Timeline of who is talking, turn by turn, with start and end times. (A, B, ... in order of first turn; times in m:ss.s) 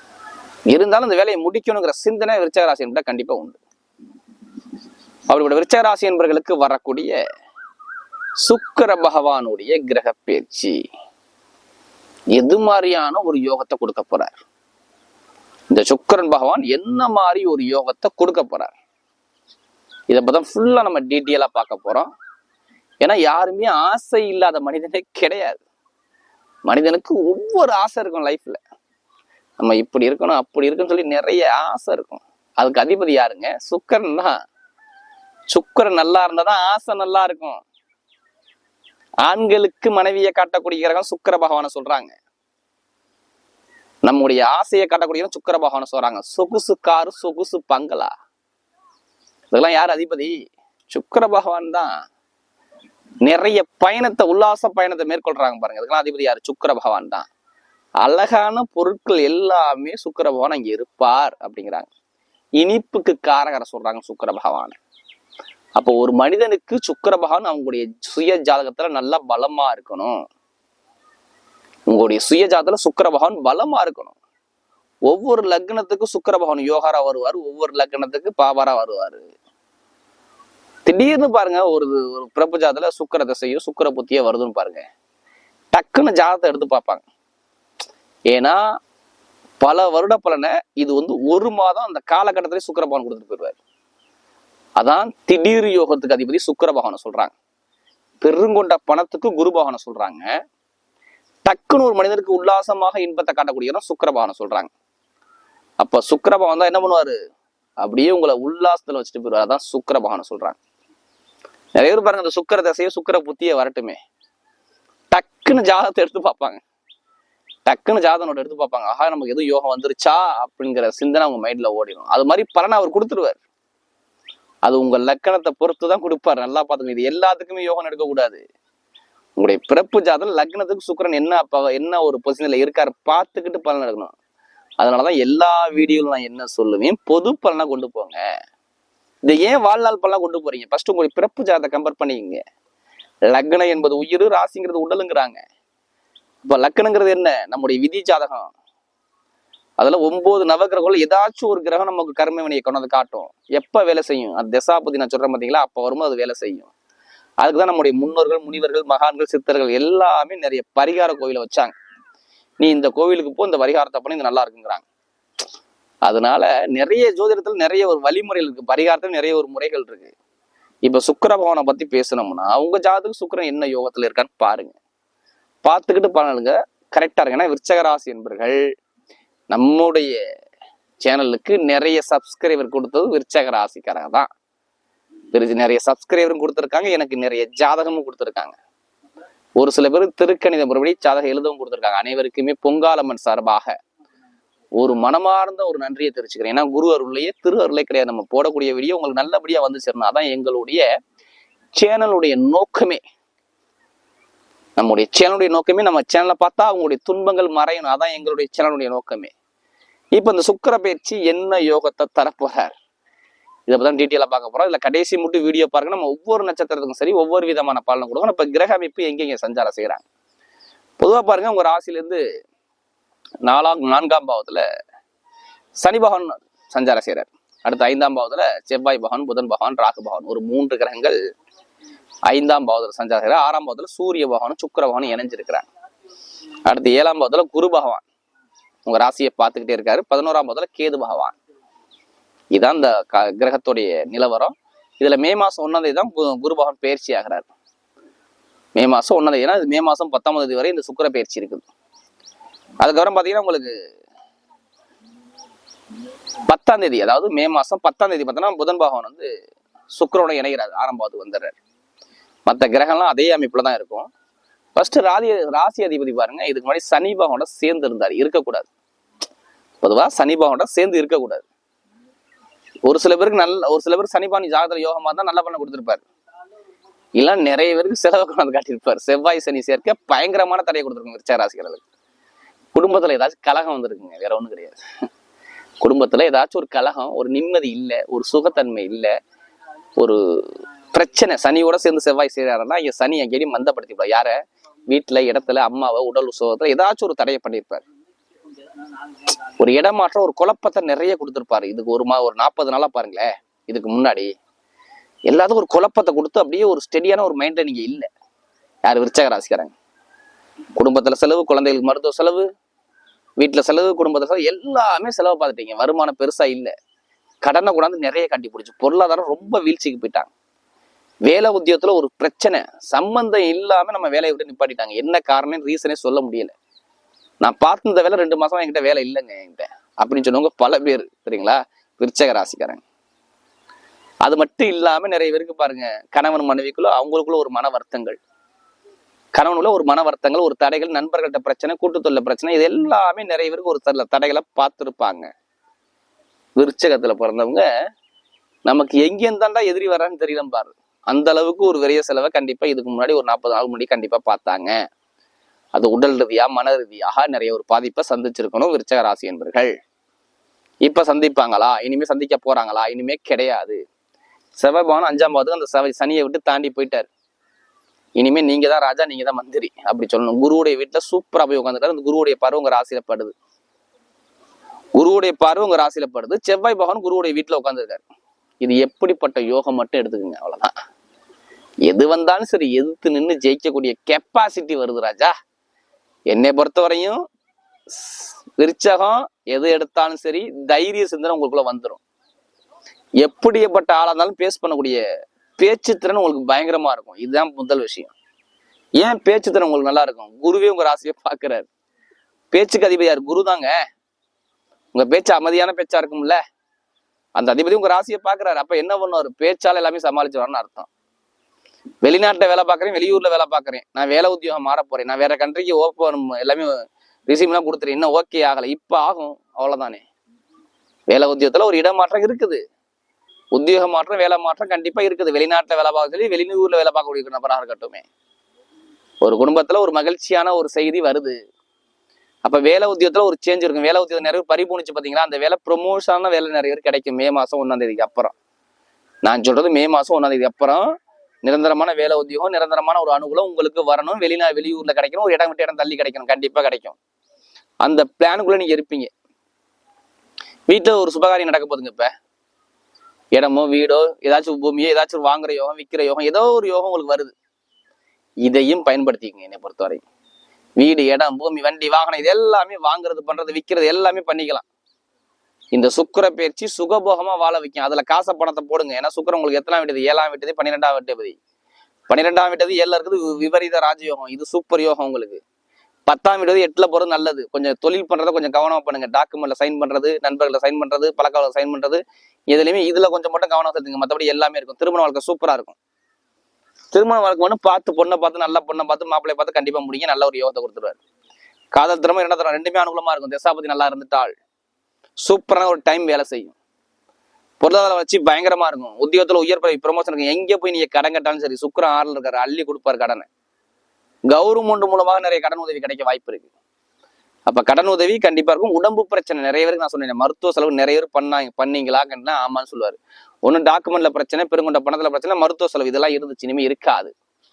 0:00.7-0:03.6 A
0:05.3-0:07.2 A
0:08.4-0:10.8 A
0:12.4-0:14.3 A
0:15.7-0:18.7 A
0:20.1-0:22.1 A
0:23.0-0:25.6 A
0:26.6-0:28.6 A
0:29.6-0:34.3 A
0:35.5-0:37.6 A
0:39.2-0:42.1 A
0:44.0-0:48.1 A
0:49.5-0:50.4 A
0:50.9-0:51.9 A
0:53.2-0:57.2 A
0:58.0-1:01.9 A
1:02.6-1:04.8 A
1:05.8-1:10.1 A
1:11.9-1:14.2 A
1:15.1-1:19.3 A
1:20.8-1:24.8 A
1:25.7-1:27.0 A
1:28.3-1:28.6 A
1:29.6-1:33.6 A
1:34.8-1:37.3 A
1:38.2-1:40.3 A
1:41.4-1:44.7 A
1:45.8-1:47.2 A
1:47.8-1:50.6 A
1:51.8-1:54.0 A
1:55.1-1:56.6 A
1:57.6-2:03.4 A
2:04.6-2:08.4 A
2:09.4-2:14.1 A
2:14.8-2:18.2 A
2:19.2-2:22.4 A
2:23.3-2:25.4 A
2:26.4-2:28.5 A
2:29.8-2:36.7 A
2:37.4-2:41.7 A
2:42.6-2:44.8 A
2:46.0-2:50.1 A
2:50.8-2:54.8 A
2:55.6-2:58.6 A
2:59.5-3:00.2 A
3:01.0-3:04.3 A
3:05.3-3:08.6 A
3:09.6-3:13.7 A
3:14.8-3:20.8 A
3:21.7-3:23.0 A
3:24.8-3:29.3 A
3:30.1-3:32.7 A
3:33.7-3:40.0 A
3:41.0-3:42.2 A
3:43.4-3:44.6 A
3:45.8-3:51.2 A
3:52.3-3:55.6 A
3:56.6-3:58.0 A
3:58.8-4:01.4 A
4:02.5-4:07.5 A
4:08.8-4:11.6 A
4:12.8-4:13.7 A
4:16.5-4:19.3 A
4:19.9-4:21.6 A
4:22.5-4:24.1 A
4:24.7-4:28.7 A
4:29.8-4:31.4 A
4:32.8-4:36.0 A
4:37.2-4:41.8 A
4:42.7-4:44.8 A
4:45.8-4:49.1 A
4:50.0-4:54.4 A
4:54.9-4:57.8 A
4:59.6-5:04.3 A
5:05.3-5:08.0 A
5:08.8-5:09.7 A
5:10.8-5:12.5 A
5:13.4-5:16.7 A
5:17.4-5:20.3 A
5:21.2-5:26.5 A
5:27.4-5:32.8 A
5:34.2-5:38.2 A
5:39.3-5:45.3 A
5:46.6-5:47.6 A
5:48.6-5:54.7 A
5:55.7-5:59.7 A
6:00.8-6:03.8 A
6:04.6-6:07.1 A
6:08.2-6:13.3 A
6:15.0-6:18.0 A
6:18.6-6:20.7 A
6:21.9-6:25.3 A
6:26.3-6:27.2 A
6:27.9-6:32.0 A
6:33.2-6:35.0 A
6:35.6-6:38.1 A
6:39.0-6:41.7 A
6:42.5-6:43.7 A
6:44.9-6:46.4 A
6:47.4-6:50.9 A
6:52.0-6:56.7 A
6:57.3-7:00.0 A
7:01.1-7:02.6 A
7:03.5-7:08.1 A
7:09.2-7:11.4 A
7:12.4-7:18.3 A
7:19.2-7:20.9 A
7:21.4-7:27.0 A
7:27.8-7:29.1 A
7:30.7-7:32.1 A
7:33.3-7:37.3 A
7:38.4-7:40.0 A
7:40.8-7:44.6 A
7:45.7-7:51.4 A
7:52.1-7:55.4 A
7:56.1-8:05.8 A
8:06.9-8:11.0 A
8:11.7-8:14.3 A
8:15.2-8:16.6 A
8:17.6-8:23.3 A
8:24.3-8:26.5 A
8:27.5-8:37.1 A